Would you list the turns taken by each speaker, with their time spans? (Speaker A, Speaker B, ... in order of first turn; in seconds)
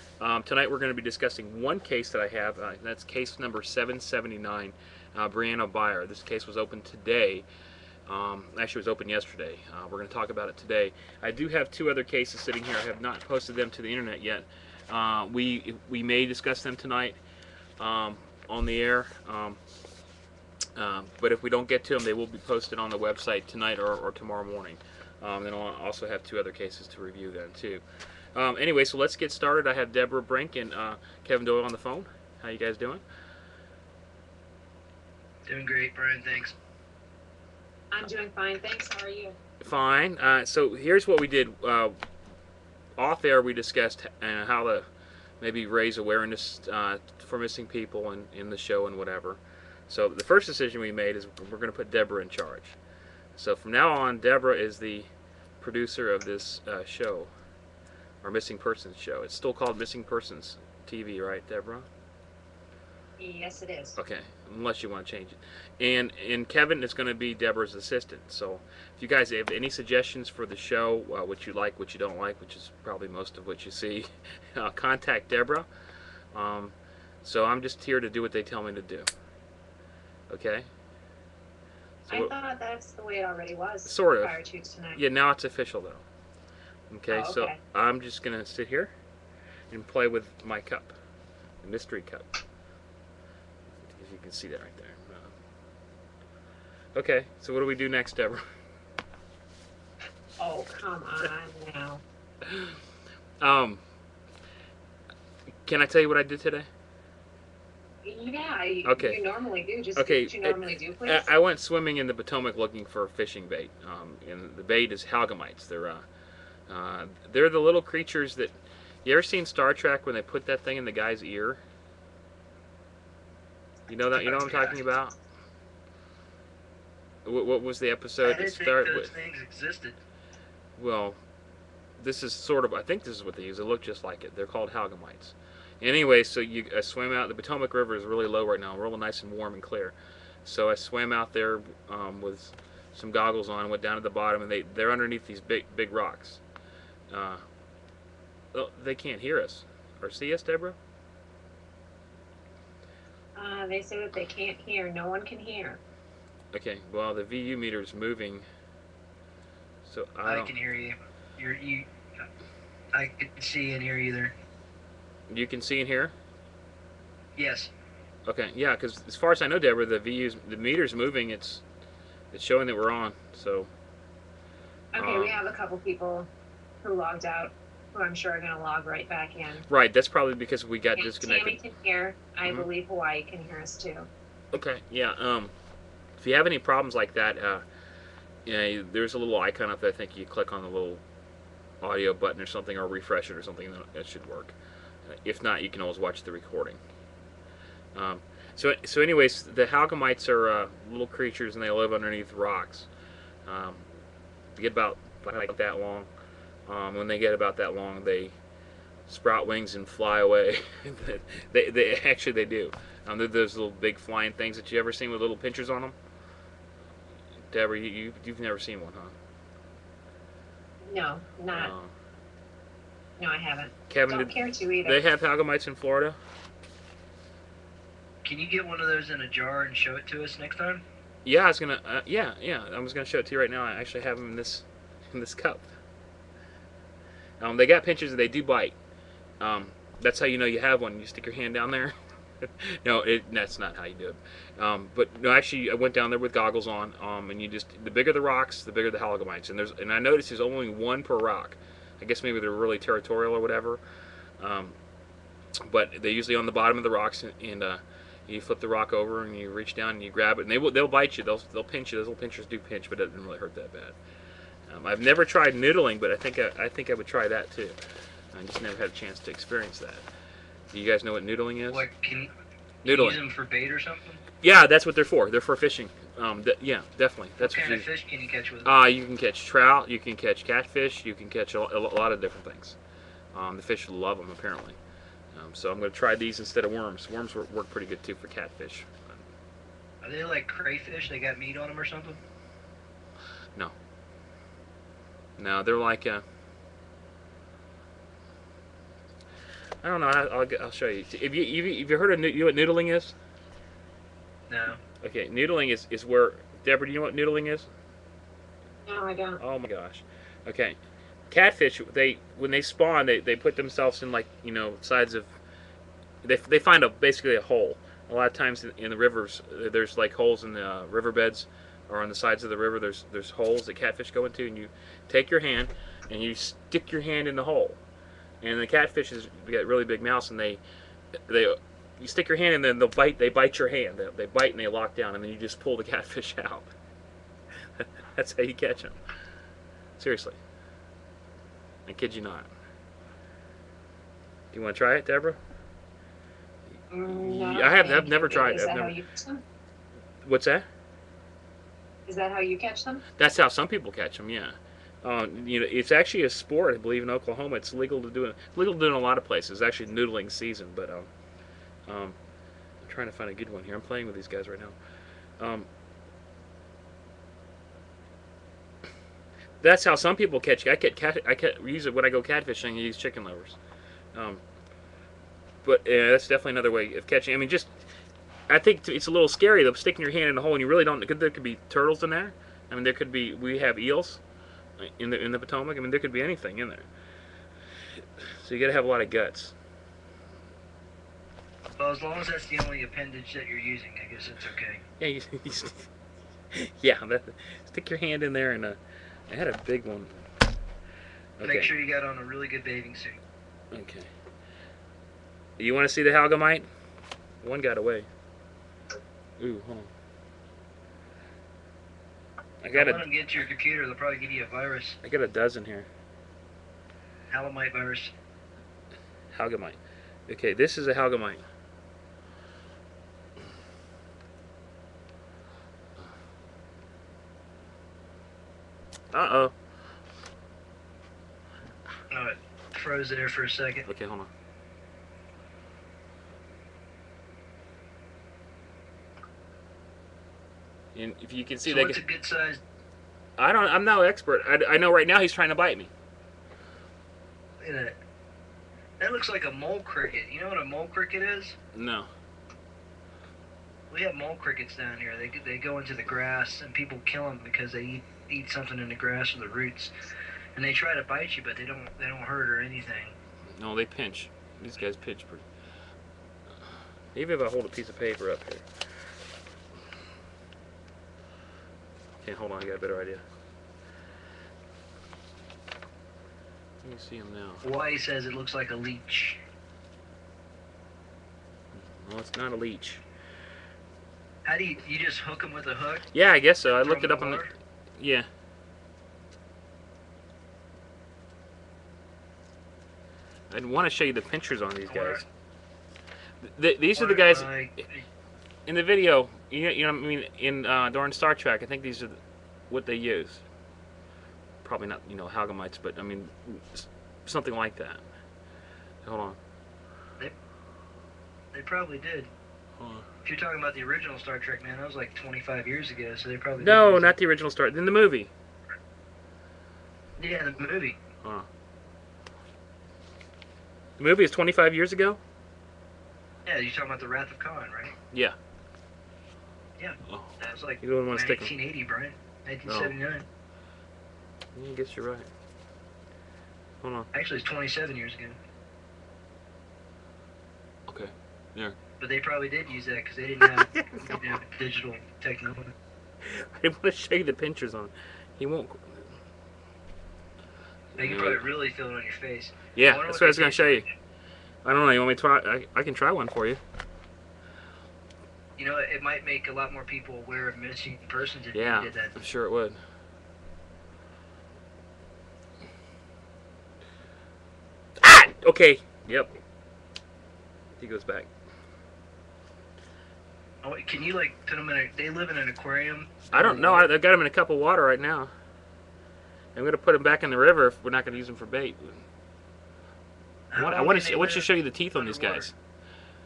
Speaker A: 0.2-7.5, 8.1-17.2, 17.8-19.6, 20.8-27.8, 28.4-33.0, 39.6-42.0, 43.0-44.9, 45.4-52.8, 53.4-55.1, 55.6-57.3, 58.2-61.9, 64.0-75.7, 76.3-79.1, 80.3-80.7, 82.0-82.3, 83.9-84.4, 85.0-86.0, 86.9-88.9, 89.7-91.0, 91.6-92.3, 93.8-95.3, 97.0-98.4, 102.4-102.8, 103.4-103.8, 105.7-106.7, 108.8-109.2, 110.0-116.0, 116.7-121.6, 123.9-125.2, 127.2-129.1, 130.8-131.2, 132.0-146.4, 147.1-147.4, 148.5-150.8, 156.5-158.5, 159.8-160.5, 165.3-166.1, 168.3-171.6, 172.3-173.7, 175.0-175.4, 179.7-181.6, 184.5-185.5, 186.2-187.7, 188.5-191.0, 191.8-194.6, 195.1-196.8, 197.9-202.9, 203.5-203.9, 204.6-206.1, 206.7-208.3, 209.1-215.9, 217.5-219.2, 221.5-221.9, 223.9-226.2, 231.2-235.7, 237.4-238.8, 239.4-253.8, 254.4-254.8, 255.6-264.0, 264.7-267.8, 268.3-270.1, 270.7-271.9, 272.8-273.2, 274.4-277.9, 278.6-282.8, 283.3-284.8, 285.3-289.3, 295.4-296.2, 299.8-303.1, 305.0-307.7, 309.4-310.8, 311.3-315.3, 316.2-327.8, 328.4-330.6, 331.3-336.7, 337.8-339.0, 340.0-340.4, 341.9-342.5, 344.5-345.4, 347.1-348.9, 350.2-350.7, 353.2-361.1, 361.9-362.2, 362.8-364.8, 365.4-365.7, 369.6-373.6, 374.1-374.4, 375.6-377.8, 378.5-384.2, 384.8-386.9, 388.2-389.5, 395.0-395.9, 396.5-398.8, 399.3-400.2, 401.4-401.7, 403.7-404.1, 405.6-406.7, 407.4-408.1, 409.4-409.9, 412.6-413.1, 415.0-415.9, 419.3-421.4, 429.1-429.5, 433.9-434.3, 440.9-442.0, 443.4-445.9, 451.7-452.1, 463.5-465.4, 467.1-468.7, 472.2-473.2, 476.8-477.6, 481.7-483.0, 486.1-487.4, 488.0-488.3, 493.5-495.2, 496.4-497.5, 498.7-502.2, 502.7-503.4, 504.6-508.0, 509.0-509.4, 512.8-513.1, 516.6-518.3, 524.0-525.2, 528.1-528.4, 530.1-531.5, 532.7-533.0, 534.5-535.3, 536.8-537.1, 540.9-541.8, 543.4-544.3, 546.2-549.1, 551.0-551.5, 552.7-553.9, 554.6-556.6, 561.5-562.8, 568.0-569.3, 570.8-571.3, 576.3-578.3, 579.5-582.0, 583.6-585.5
Speaker B: 35.5-36.5, 124.2-124.8, 128.2-130.0, 160.2-161.9, 162.9-164.3, 167.4-167.7, 228.2-230.8, 271.7-272.3, 272.9-274.2, 277.4-278.7, 290.0-292.2, 304.5-304.8, 391.8-394.8, 401.4-403.2, 412.7-415.0, 417.3-418.1, 432.1-433.9, 441.6-442.6, 447.6-448.0, 449.0-451.6, 453.9-459.9, 460.6-463.1, 477.6-479.4, 484.4-486.1, 486.8-487.5, 494.9-495.2, 497.0-498.1, 511.5-512.3, 513.2-517.1, 520.2-521.0, 526.5-528.0, 529.8-533.3, 537.1-538.4, 542.0-545.8, 551.0-553.9, 558.6-562.1, 573.6-576.9, 583.5-585.5
Speaker C: 37.9-39.4, 63.2-64.0, 82.1-85.0, 87.1-87.6, 100.4-102.0, 108.0-111.3, 153.4-155.8, 174.9-176.3, 176.8-179.7, 181.0-184.1, 220.8-221.7, 223.2-225.0, 308.9-309.4, 346.9-349.4, 352.1-353.0